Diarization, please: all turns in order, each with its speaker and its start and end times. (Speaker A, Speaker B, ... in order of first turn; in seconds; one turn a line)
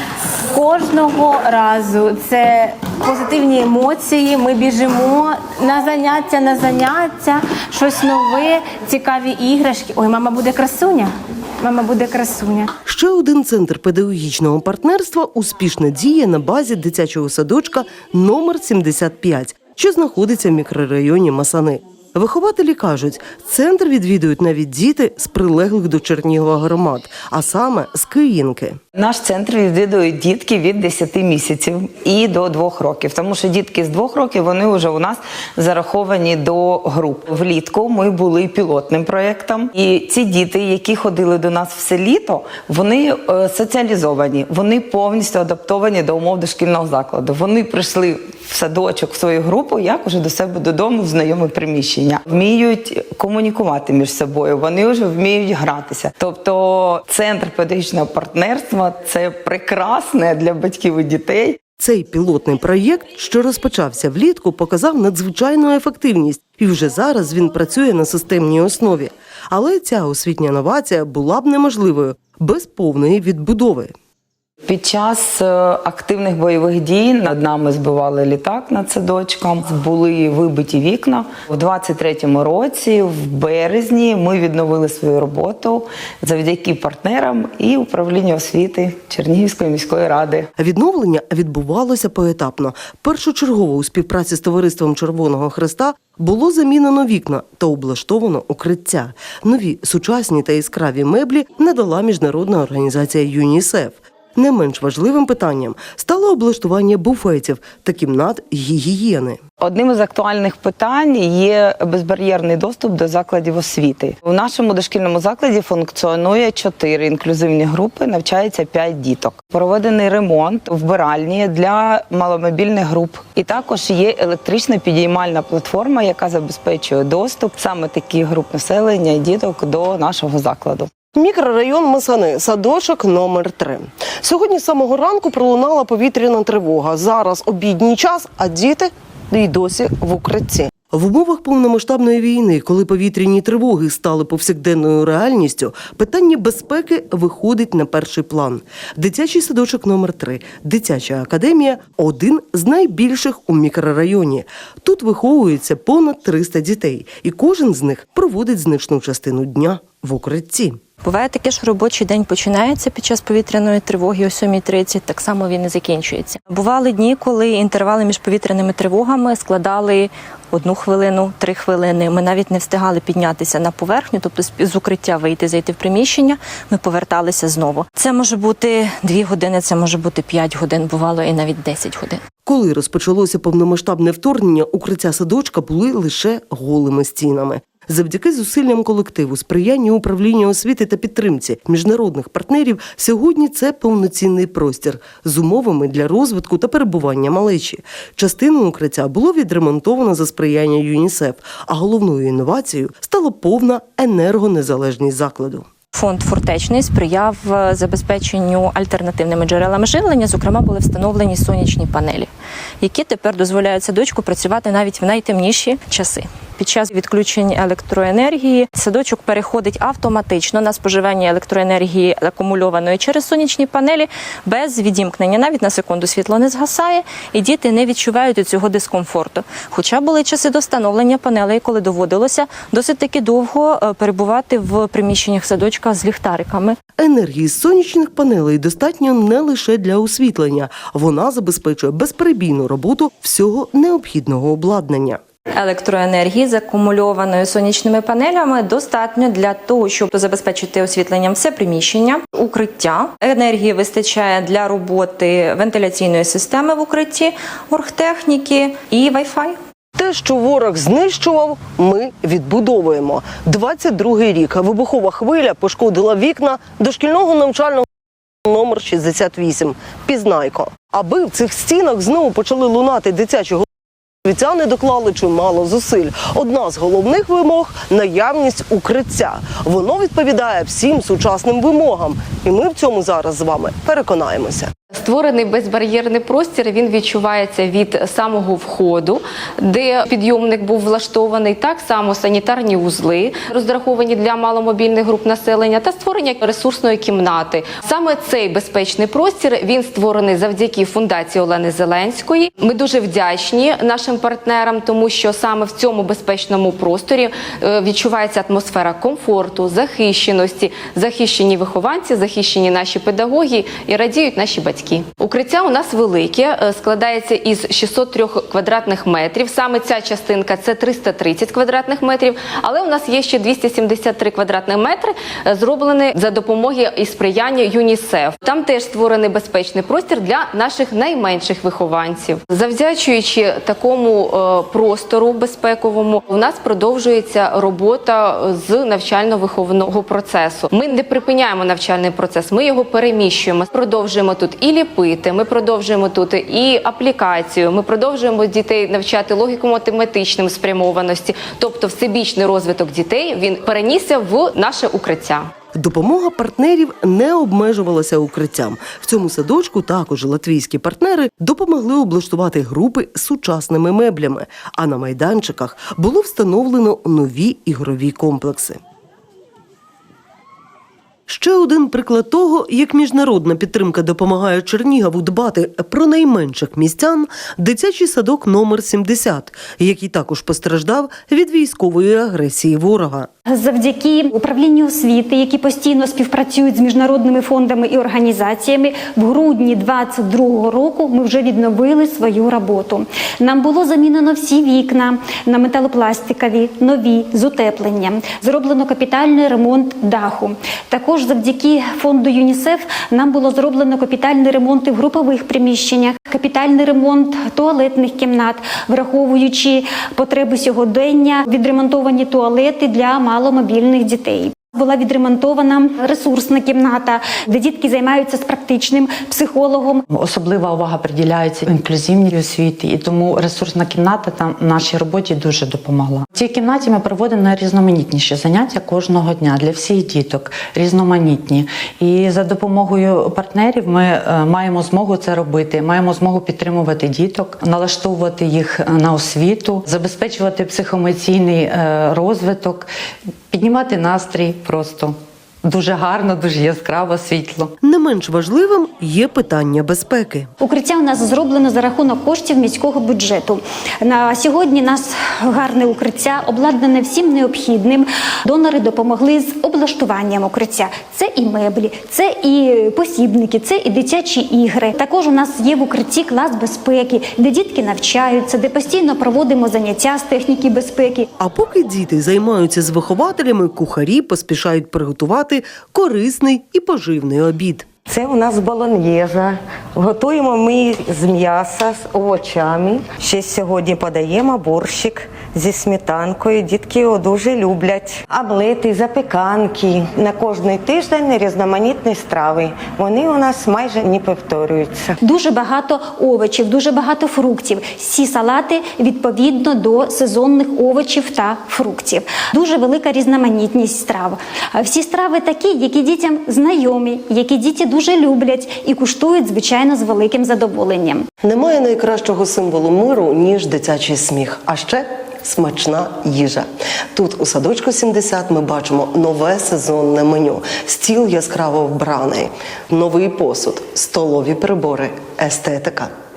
Speaker A: 0.5-12.7
Speaker B: 12.8-28.8
Speaker C: 28.9-61.6
Speaker B: 61.8-73.9
Speaker C: 74.6-90.5
Speaker B: 90.6-109.4
Speaker C: 109.6-130.9
Speaker B: 131.1-160.8
Speaker D: 161.0-182.2
Speaker B: 182.4-205.7
Speaker D: 205.9-212.3
Speaker D: 212.8-236.8
Speaker B: 237.0-245.2
Speaker D: 245.5-259.6
Speaker B: 259.9-267.9
Speaker B: 268.4-273.7
Speaker B: 274.2-284.7
Speaker E: 284.9-355.5
Speaker B: 355.7-368.8
Speaker B: 371.3-383.3
Speaker F: 383.5-420.0
Speaker G: 420.1-442.9
Speaker G: 443.5-447.7
Speaker B: 447.8-450.5
Speaker F: 450.6-471.3
Speaker B: 471.4-477.9
Speaker H: 478.1-495.1
Speaker F: 495.2-511.2
Speaker B: 511.4-526.1